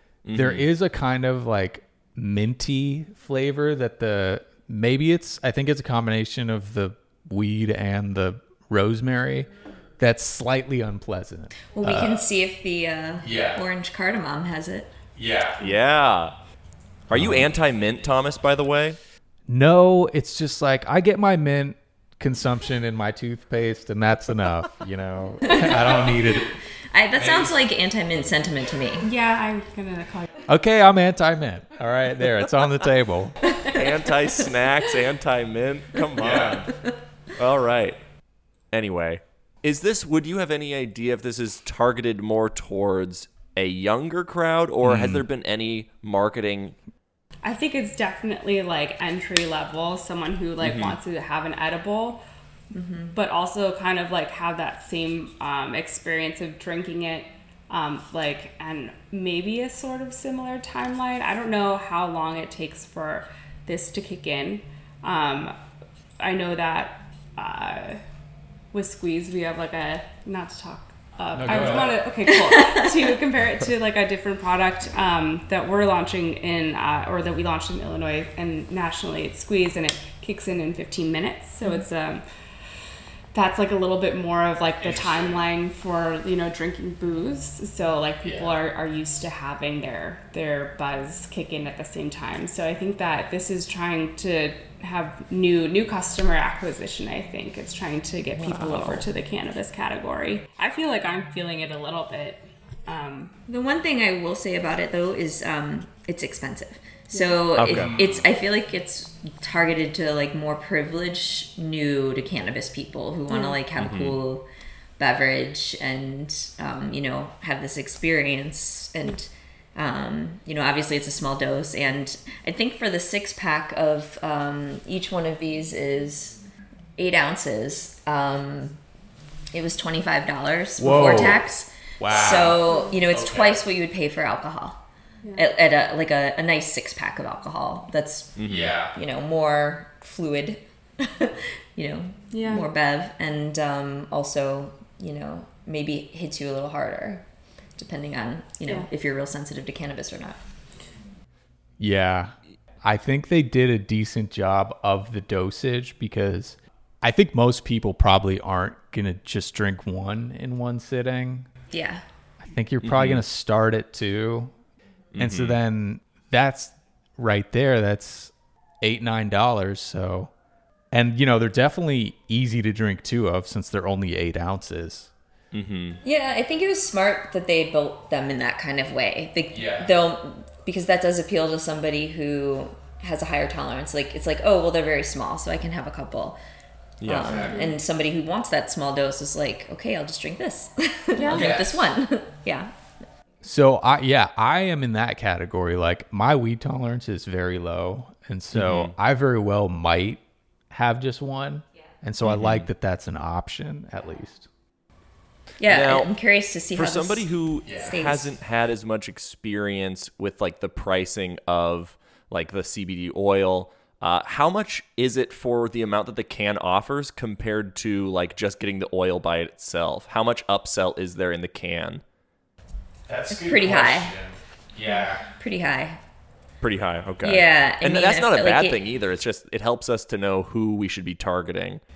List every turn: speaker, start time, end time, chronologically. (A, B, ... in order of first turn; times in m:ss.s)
0:00.2-0:00.7 A
0:00.3-0:12.2 B
0:11.7-0:14.9 C
0:13.2-0:13.6 B
0:15.2-0:15.6 B
0:15.6-0:16.3 A
0:17.1-0:19.0 A
0:17.1-0:17.5 B
0:19.5-0:26.5 B
0:25.4-0:26.4 C
0:26.9-0:29.1 C
0:27.2-0:27.5 A
0:29.0-0:30.4 D
0:30.5-0:33.4 B
0:33.6-0:33.9 C
0:33.7-0:36.7 A
0:36.2-0:36.6 B
0:37.4-0:38.0 A
0:38.7-0:46.8 A
0:44.8-0:45.2 B
0:47.4-0:52.2 D
0:50.6-0:51.0 A
0:52.7-0:53.2 C
0:53.1-1:05.6 D
1:06.2-1:08.0 D
1:08.7-1:22.2 D
1:11.3-1:12.0 B
1:12.3-1:13.0 C
1:23.3-1:43.4 D
1:24.8-1:25.4 B
1:28.2-1:28.5 B
1:43.5-1:54.4 C
1:47.1-1:47.4 D
1:47.6-1:48.0 A
1:47.7-1:48.0 B
1:53.3-1:53.6 D
1:53.8-1:54.2 A
1:55.0-2:06.4 C
2:07.0-2:08.8 C
2:09.5-2:14.8 C
2:10.8-2:11.4 B
2:12.0-2:13.6 B
2:15.4-2:18.4 C
2:18.4-2:18.7 A
2:18.5-2:18.9 B
2:18.9-2:27.2 C
2:22.3-2:22.7 D
2:27.8-2:30.4 C
2:31.8-2:41.5 B
2:41.7-2:42.0 C
2:42.4-2:44.5 B
2:42.8-2:43.2 A
2:45.1-2:45.6 A
2:45.2-2:50.3 B
2:50.9-2:55.1 B
2:55.5-2:56.0 A
2:56.0-3:06.4 C
2:59.5-2:59.9 B
3:07.0-3:07.4 A
3:07.0-3:12.7 C
3:07.2-3:07.6 B
3:07.4-3:07.7 D
3:11.2-3:11.5 D
3:11.3-3:11.8 B
3:13.4-3:24.5 B
3:18.5-3:18.9 A
3:22.2-3:22.7 A
3:25.6-3:28.4 C
3:25.7-3:26.1 A
3:26.7-3:42.0 A
3:27.7-3:27.9 B
3:43.1-3:45.2 B
3:43.3-3:44.1 C
3:45.4-3:46.0 C
3:46.6-3:51.8 A
3:47.2-3:48.8 C